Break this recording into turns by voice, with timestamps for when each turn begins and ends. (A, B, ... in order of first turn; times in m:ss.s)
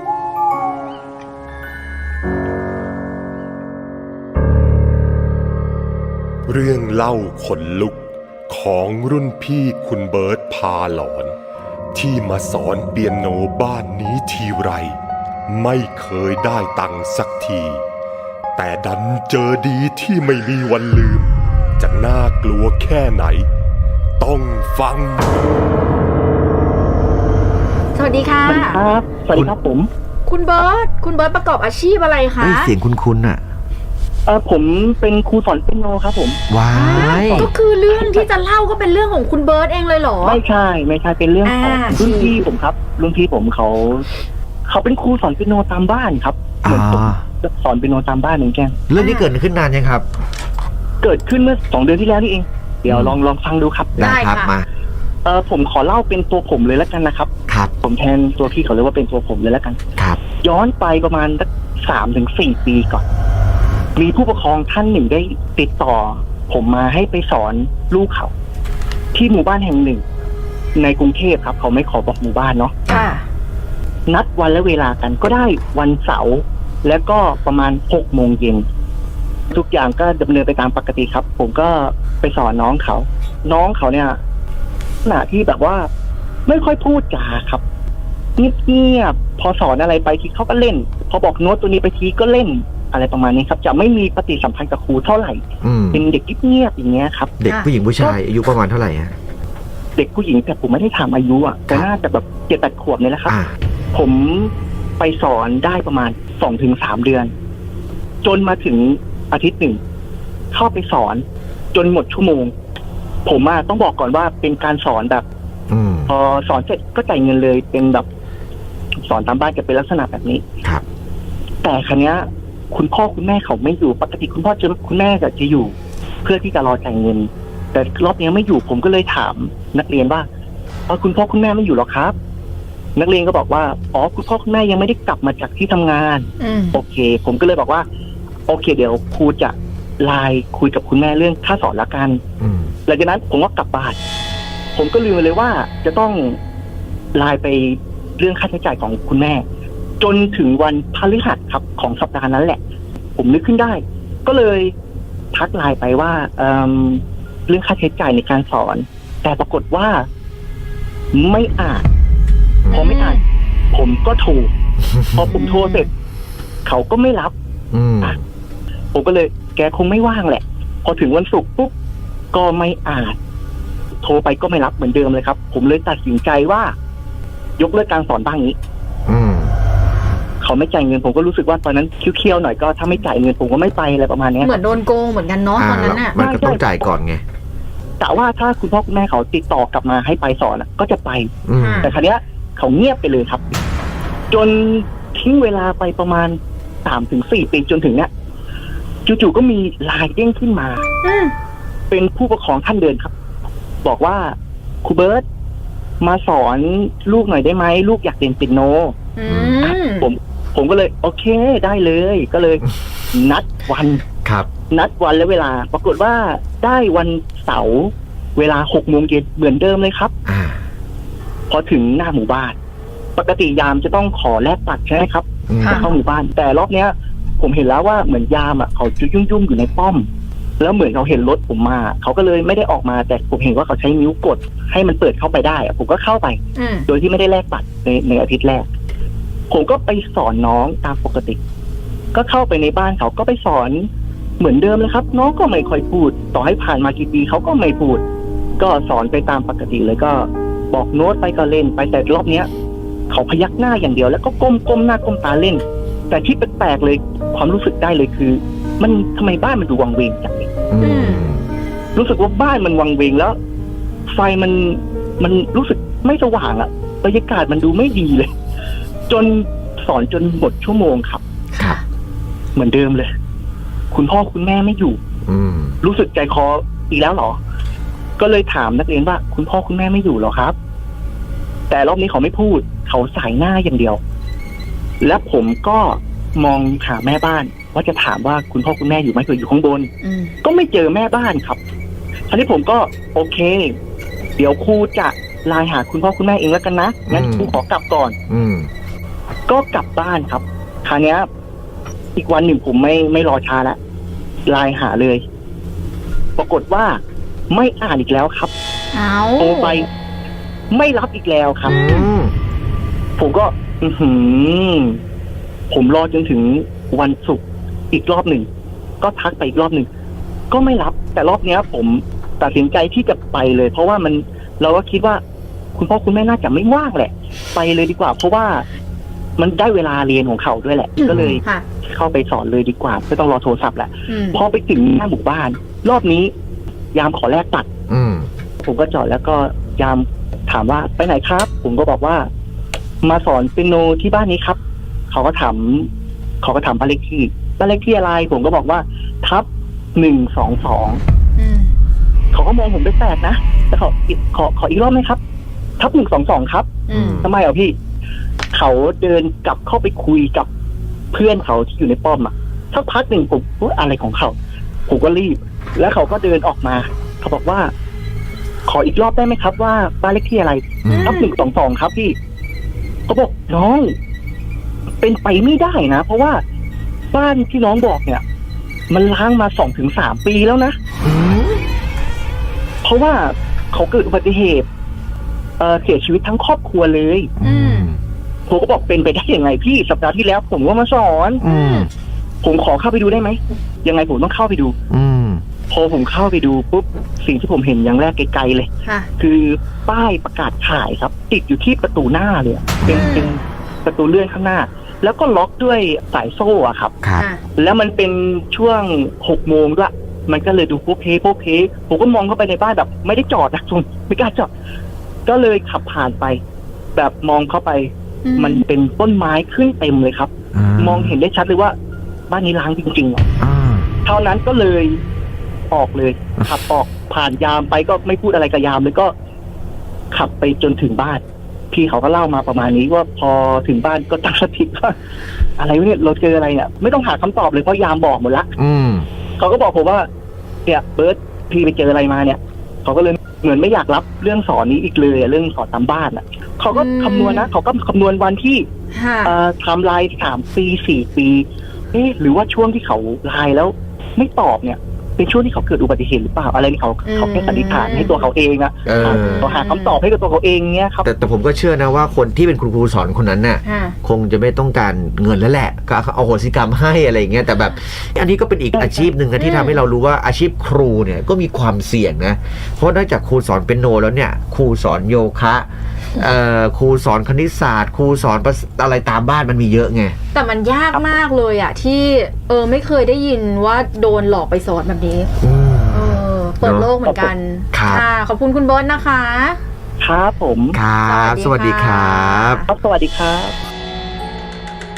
0:06.5-0:11.4 A
0:11.9-0:15.0 A
0:15.5-0:17.8 A
0:18.6-0:23.5 A
0:24.2-0:25.3 A
0:28.0-0:28.8 B
0:28.4-0:29.9 C
0:30.3-0:32.7 B
0:32.4-0:33.4 D
0:34.3-0:38.3 C
0:36.5-0:37.5 D
0:36.7-0:40.4 B
0:40.2-0:44.1 C
0:41.4-0:42.4 B
0:44.7-0:48.8 C
0:46.6-0:47.2 D
0:48.9-0:50.1 D
0:49.0-0:49.3 B
0:51.0-0:54.2 C
0:52.9-0:53.2 D
0:54.0-0:54.6 D
0:54.0-0:54.6 B
0:55.2-0:57.3 C
0:57.8-0:59.8 C
1:00.4-1:03.0 C
1:04.0-1:08.3 C
1:09.1-1:10.0 C
1:10.8-1:12.8 C
1:12.9-1:13.2 B
1:12.9-1:13.2 D
1:14.1-1:18.6 C
1:19.5-1:24.2 C
1:25.0-1:25.9 C
1:26.5-1:27.6 C
1:28.4-1:37.3 C
1:35.6-1:36.0 D
1:37.4-1:39.1 D
1:40.0-1:43.4 C
1:43.3-1:43.5 D
1:43.9-1:47.3 C
1:48.2-1:49.8 C
1:50.5-1:52.5 C
1:53.2-1:55.2 C
1:55.7-1:56.1 D
1:56.1-1:58.1 C
1:59.0-2:00.4 C
2:01.6-2:10.3 C
2:10.9-2:12.2 C
2:13.0-2:17.9 C
2:16.4-2:16.8 B
2:18.5-2:22.2 C
2:22.4-2:22.7 D
2:22.9-2:24.0 C
2:24.8-2:26.4 C
2:27.1-2:29.4 C
2:30.0-2:32.6 C
2:33.2-2:34.7 C
2:35.3-2:40.1 C
2:41.1-2:41.9 C
2:42.7-2:43.2 C
2:42.7-2:43.2 B
2:43.7-2:44.5 C
2:44.8-2:45.4 D
2:45.1-2:45.9 C
2:45.3-2:45.9 B
2:46.6-2:47.3 C
2:47.7-2:48.2 D
2:48.9-2:51.7 C
2:52.3-2:53.2 C
2:54.0-2:56.8 C
2:57.6-2:58.6 C
2:59.1-2:59.6 D
3:00.4-3:04.6 C
3:04.4-3:06.2 B
3:05.6-3:07.2 D
3:06.1-3:06.9 C
3:08.0-3:13.4 C
3:11.4-3:11.9 D
3:11.6-3:11.9 B
3:14.3-3:18.1 C
3:19.0-3:20.8 C
3:21.0-3:21.3 B
3:21.9-3:23.1 C
3:23.8-3:25.2 C
3:26.0-3:29.0 C
3:29.2-3:30.1 B
3:29.3-3:29.6 D
3:29.6-3:34.0 C
3:34.7-3:40.1 C
3:40.2-3:40.6 D
3:41.5-3:42.6 C
3:43.2-3:50.1 C
3:45.5-3:45.8 D
3:45.6-3:45.9 B
3:50.6-3:58.7 C
3:56.6-3:56.9 B
3:59.5-4:01.4 C
4:02.1-4:03.9 C
4:04.4-4:08.0 C
4:08.6-4:12.5 C
4:13.1-4:20.5 C
4:20.7-4:21.4 D
4:20.8-4:21.3 B
4:22.0-4:23.4 C
4:24.1-4:28.3 C
4:29.1-4:31.2 C
4:31.5-4:31.8 B
4:32.6-4:33.1 C
4:33.9-4:35.0 C
4:35.3-4:35.8 D
4:35.8-4:37.4 C
4:38.2-4:40.6 C
4:41.7-4:44.0 C
4:45.0-4:49.9 C
4:50.0-4:50.4 B
4:50.4-4:51.6 C
4:52.3-4:53.8 C
4:54.4-4:58.2 C
4:57.1-4:57.6 D
4:58.3-4:58.7 D
4:59.5-5:01.3 C
5:02.2-5:03.8 C
5:04.5-5:05.2 C
5:06.4-5:08.5 C
5:08.9-5:09.8 B
5:09.4-5:09.9 C
5:10.7-5:11.8 C
5:11.7-5:12.3 D
5:11.7-5:12.1 B
5:13.2-5:15.0 C
5:15.7-5:18.5 C
5:19.0-5:19.9 C
5:20.5-5:25.2 C
5:25.8-5:28.7 C
5:29.4-5:36.3 C
5:31.0-5:31.6 B
5:31.0-5:31.4 D
5:34.1-5:34.4 B
5:36.9-5:37.7 C
5:37.9-5:38.3 D
5:38.6-5:42.3 C
5:43.0-5:44.6 C
5:45.1-5:45.9 C
5:46.4-5:51.0 C
5:51.4-5:51.7 B
5:52.3-5:55.2 C
5:55.8-5:57.8 C
5:56.9-5:57.3 B
5:56.9-5:57.3 D
5:58.5-6:00.5 C
6:01.1-6:04.4 C
6:04.9-6:07.7 C
6:08.7-6:12.2 C
6:10.8-6:11.2 D
6:10.9-6:11.3 B
6:13.1-6:14.0 C
6:15.0-6:16.4 C
6:17.1-6:18.2 C
6:18.9-6:20.8 C
6:21.0-6:21.6 D
6:22.8-6:24.7 C
6:25.6-6:27.3 C
6:27.4-6:28.0 D
6:27.4-6:27.9 B
6:28.5-6:31.4 C
6:31.4-6:31.9 B
6:31.4-6:31.9 D
6:32.4-6:34.8 C
6:34.9-6:35.4 D
6:35.7-6:47.0 C
6:42.8-6:43.1 D
6:42.9-6:43.4 B
6:47.0-6:47.3 D
6:47.2-6:47.4 B
6:47.6-6:54.5 C
6:55.3-6:56.4 C
6:57.0-7:01.8 C
6:58.2-6:58.6 B
7:00.5-7:01.2 D
7:02.3-7:03.3 C
7:03.4-7:03.9 D
7:04.0-7:05.0 C
7:05.7-7:09.1 C
7:10.1-7:15.0 C
7:15.6-7:18.5 C
7:18.6-7:19.1 D
7:19.4-7:20.1 C
7:20.6-7:28.7 C
7:26.7-7:27.5 B
7:28.9-7:29.4 B
7:29.2-7:41.1 C
7:37.1-7:38.2 B
7:38.9-7:39.5 D
7:39.0-7:40.0 B
7:41.0-8:00.2 D
7:43.6-7:44.0 B
7:48.8-7:49.1 C
7:49.4-7:49.8 B
8:00.3-8:05.3 B
8:05.4-8:06.9 D
8:05.9-8:09.6 B
8:07.7-8:08.0 D
8:10.0-8:10.8 C
8:10.7-8:12.6 D
8:11.0-8:12.7 B
8:12.7-8:13.6 C